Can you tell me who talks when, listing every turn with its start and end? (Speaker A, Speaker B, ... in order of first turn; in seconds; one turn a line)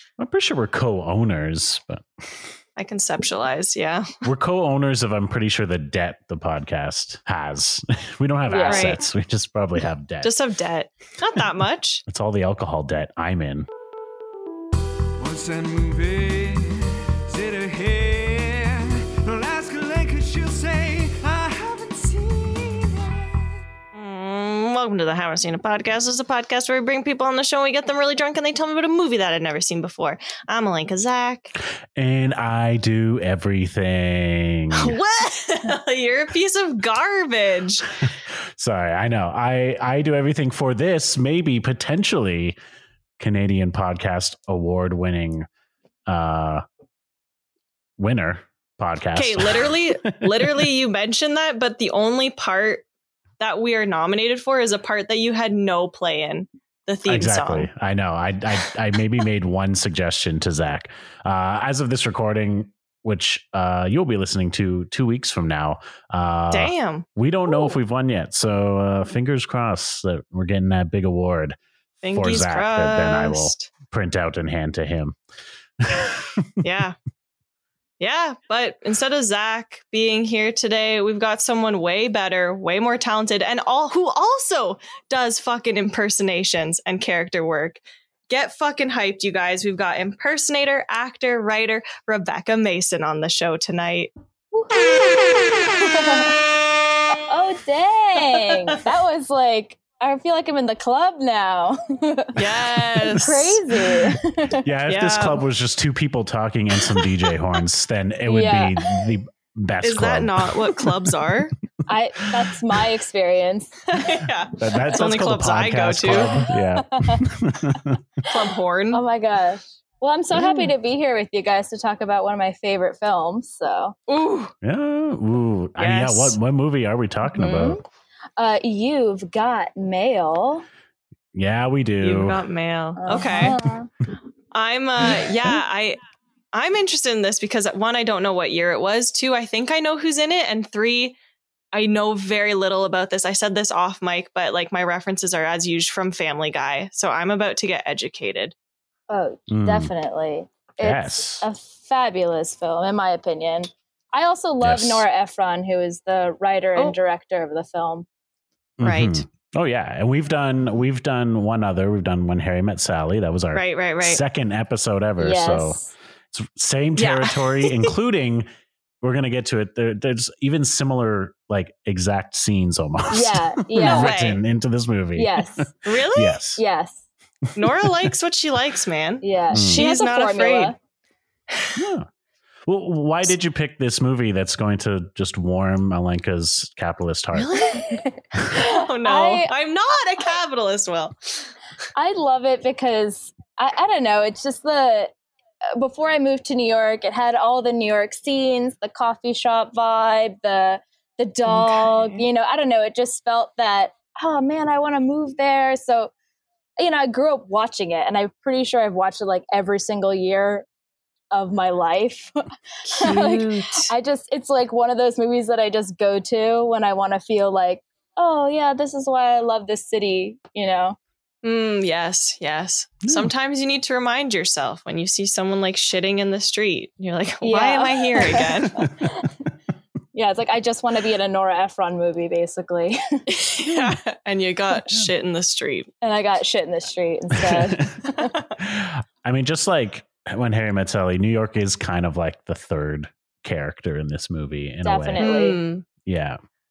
Speaker A: 0.2-2.5
Speaker B: 2.8-4.1
Speaker A: 4.2-10.3
Speaker C: 8.5-8.9
Speaker B: 8.7-9.0
Speaker B: 10.2-12.0
Speaker A: 12.1-13.7
Speaker D: 15.2-23.5
Speaker B: 23.9-31.6
Speaker A: 31.9-35.0
Speaker B: 34.7-38.0
Speaker A: 38.0-42.6
Speaker A: 43.2-45.5
Speaker A: 46.1-46.6
Speaker A: 48.0-50.7
Speaker B: 49.1-52.9
Speaker B: 53.4-57.7
Speaker A: 57.1-71.6
Speaker B: 66.5-67.1
Speaker B: 72.0-73.7
Speaker A: 72.1-75.2
Speaker A: 75.8-76.5
Speaker B: 76.6-77.0
Speaker B: 78.0-94.1
Speaker C: 94.5-96.4
Speaker C: 97.3-102.5
Speaker B: 102.3-103.5
Speaker C: 103.1-104.7
Speaker A: 103.1-111.1
Speaker B: 104.9-105.4
Speaker C: 108.3-109.1
Speaker B: 109.8-111.5
Speaker C: 111.9-113.9
Speaker A: 112.3-112.8
Speaker B: 113.9-116.4
Speaker A: 114.6-118.0
Speaker C: 116.2-117.2
Speaker B: 118.2-119.0
Speaker C: 118.9-124.0
Speaker B: 120.4-120.7
Speaker B: 124.1-124.5
Speaker A: 124.6-127.8
Speaker B: 125.8-126.4
Speaker C: 127.3-127.8
Speaker C: 128.4-130.7
Speaker A: 131.3-132.4
Speaker B: 132.0-133.6
Speaker C: 133.0-133.9
Speaker B: 134.5-136.0
Speaker B: 136.5-141.2
Speaker B: 141.7-148.5
Speaker C: 149.1-158.1
Speaker A: 149.5-149.9
Speaker A: 150.8-151.5
Speaker A: 154.6-155.1
Speaker A: 158.8-165.8
Speaker B: 158.8-159.2
Speaker B: 163.5-164.2
Speaker C: 165.2-165.9
Speaker A: 166.3-168.5
Speaker B: 167.0-167.9
Speaker A: 169.0-176.6
Speaker C: 173.1-174.2
Speaker B: 173.8-174.4
Speaker C: 175.2-175.8
Speaker B: 175.8-176.4
Speaker C: 176.6-177.0
Speaker B: 177.6-180.7
Speaker A: 177.6-178.1
Speaker C: 179.2-180.8
Speaker A: 179.5-179.8
Speaker A: 181.8-182.1
Speaker A: 182.7-187.6
Speaker B: 187.3-188.0
Speaker C: 187.7-189.5
Speaker B: 188.5-191.5
Speaker C: 191.9-195.1
Speaker C: 195.7-206.1
Speaker B: 201.5-202.3
Speaker C: 206.8-210.7
Speaker C: 211.3-212.4
Speaker B: 212.9-213.9
Speaker C: 213.0-221.0
Speaker B: 221.4-228.9
Speaker A: 223.0-223.3
Speaker C: 227.4-229.4
Speaker C: 230.1-233.2
Speaker B: 233.3-235.9
Speaker C: 236.0-238.3
Speaker A: 237.4-238.0
Speaker B: 238.2-238.5
Speaker A: 238.6-245.3
Speaker C: 244.8-245.6
Speaker B: 245.2-245.9
Speaker A: 246.1-246.4